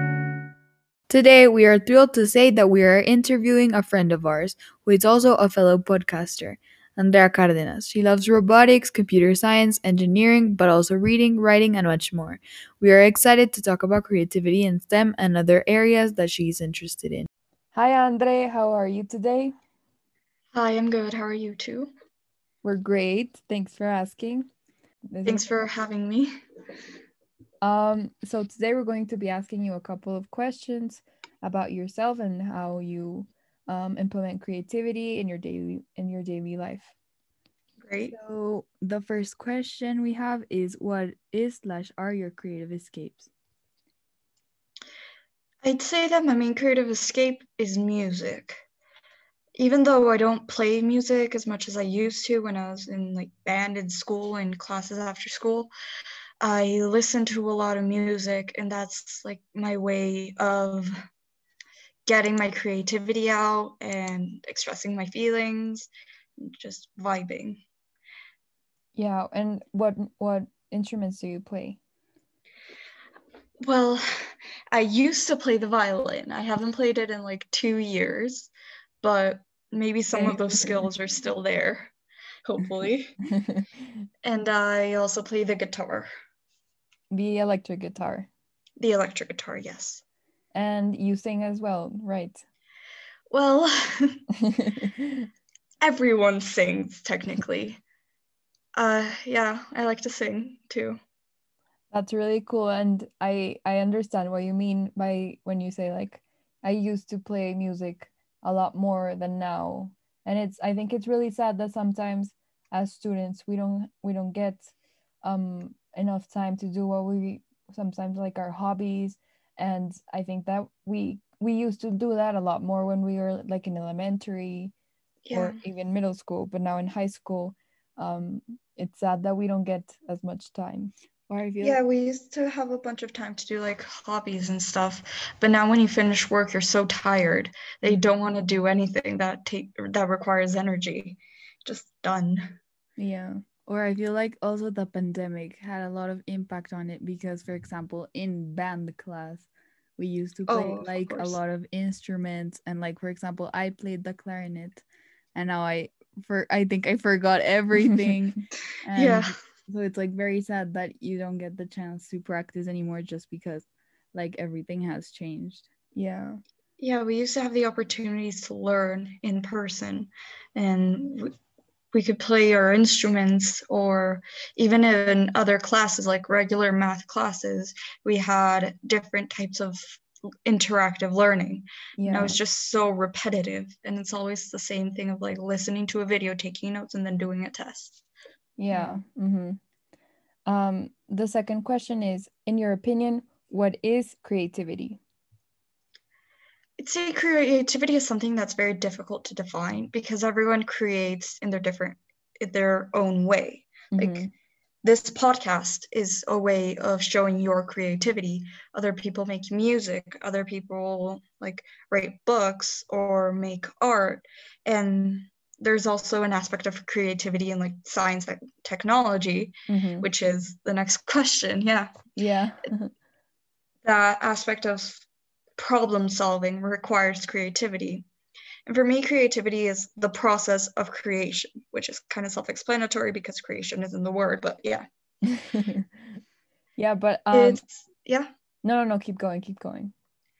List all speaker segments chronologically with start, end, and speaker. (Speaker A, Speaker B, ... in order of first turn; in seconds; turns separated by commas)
Speaker A: 1.1-17.3, Speaker B: 17.7-19.5, Speaker C: 20.5-21.9, Speaker B: 22.6-24.5, Speaker B: 25.1-25.4, Speaker C: 25.2-26.3, Speaker B: 27.6-36.9, Speaker C: 37.8-38.1, Speaker A: 38.1-43.3, Speaker C: 45.6-48.6, Speaker C: 49.6-55.7, Speaker C: 56.4-60.9, Speaker C: 62.1-67.6, Speaker B: 69.0-71.8, Speaker C: 73.6-78.5, Speaker C: 79.0-81.9, Speaker B: 80.2-80.9, Speaker C: 82.5-83.2, Speaker B: 83.3-83.7, Speaker C: 84.2-86.1, Speaker B: 87.1-88.3, Speaker C: 88.8-90.0, Speaker B: 90.5-92.4, Speaker C: 93.3-94.2, Speaker B: 94.4-95.3, Speaker C: 95.8-97.8, Speaker C: 98.8-101.0, Speaker B: 101.9-114.7, Speaker B: 115.2-124.7, Speaker C: 125.2-125.6, Speaker B: 125.3-130.9, Speaker A: 131.3-131.8, Speaker C: 131.6-142.6, Speaker B: 143.0-143.4, Speaker A: 143.7-154.8, Speaker C: 150.5-151.4, Speaker A: 155.3-165.7, Speaker C: 158.9-159.4, Speaker B: 165.9-166.4, Speaker C: 166.8-171.3, Speaker C: 171.9-188.0, Speaker B: 182.0-182.4, Speaker B: 188.6-189.6, Speaker B: 190.5-195.0, Speaker C: 196.8-204.2, Speaker B: 203.9-204.3, Speaker C: 204.8-221.9, Speaker B: 219.7-220.1, Speaker B: 222.2-222.9, Speaker C: 223.8-225.1, Speaker C: 225.6-228.1, Speaker C: 228.7-234.9, Speaker B: 235.2-236.0, Speaker B: 236.8-237.6, Speaker C: 237.3-238.3, Speaker B: 238.6-239.9